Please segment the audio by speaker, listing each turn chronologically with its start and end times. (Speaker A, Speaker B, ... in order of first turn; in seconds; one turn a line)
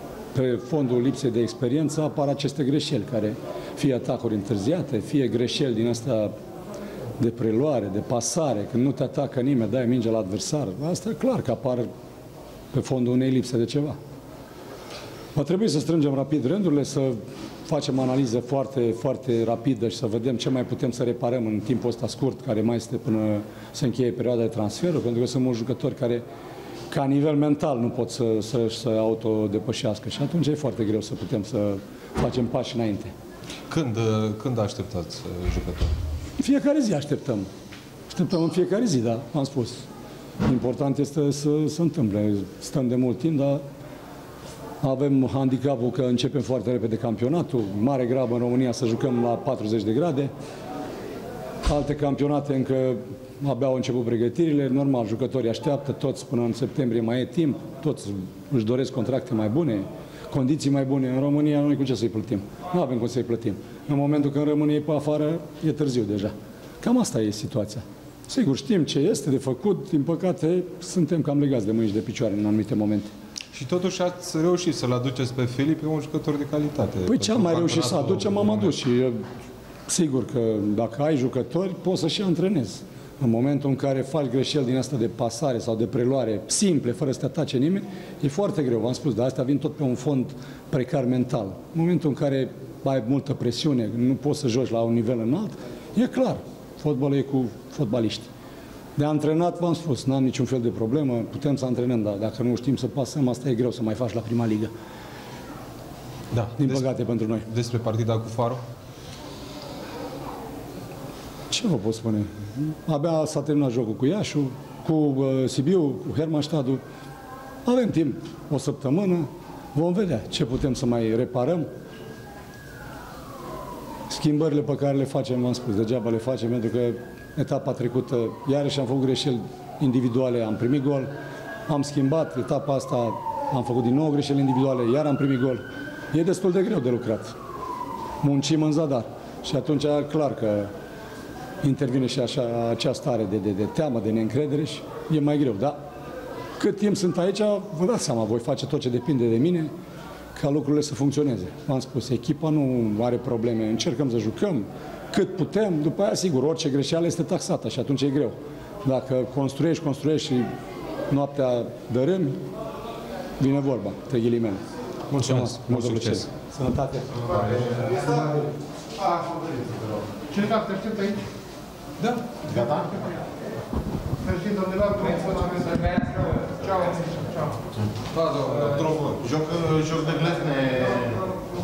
Speaker A: 0.3-6.3
Speaker A: 7.2-11.9
Speaker A: 12.7-14.0
Speaker A: 15.3-26.2
Speaker A: 26.9-33.1
Speaker B: 33.7-35.9
Speaker A: 36.4-37.5
Speaker A: 38.1-39.9
Speaker A: 40.4-43.6
Speaker A: 44.8-50.3
Speaker A: 51.6-73.1
Speaker B: 73.5-78.8
Speaker A: 77.0-79.2
Speaker A: 79.9-98.3
Speaker A: 99.0-104.7
Speaker B: 106.3-106.8
Speaker A: 106.6-107.5
Speaker B: 107.5-108.6
Speaker A: 111.5-116.8
Speaker A: 117.6-121.7
Speaker A: 124.1-131.1
Speaker A: 131.7-137.3
Speaker A: 138.2-140.7
Speaker A: 141.6-145.8
Speaker A: 146.6-149.7
Speaker A: 150.3-160.5
Speaker A: 161.1-162.4
Speaker A: 163.4-164.6
Speaker B: 165.1-166.2
Speaker A: 165.2-168.3
Speaker B: 167.3-168.1
Speaker C: 170.4-171.2
Speaker B: 172.0-172.5
Speaker C: 174.3-176.9
Speaker B: 175.8-176.2
Speaker B: 178.0-180.0
Speaker C: 179.8-181.2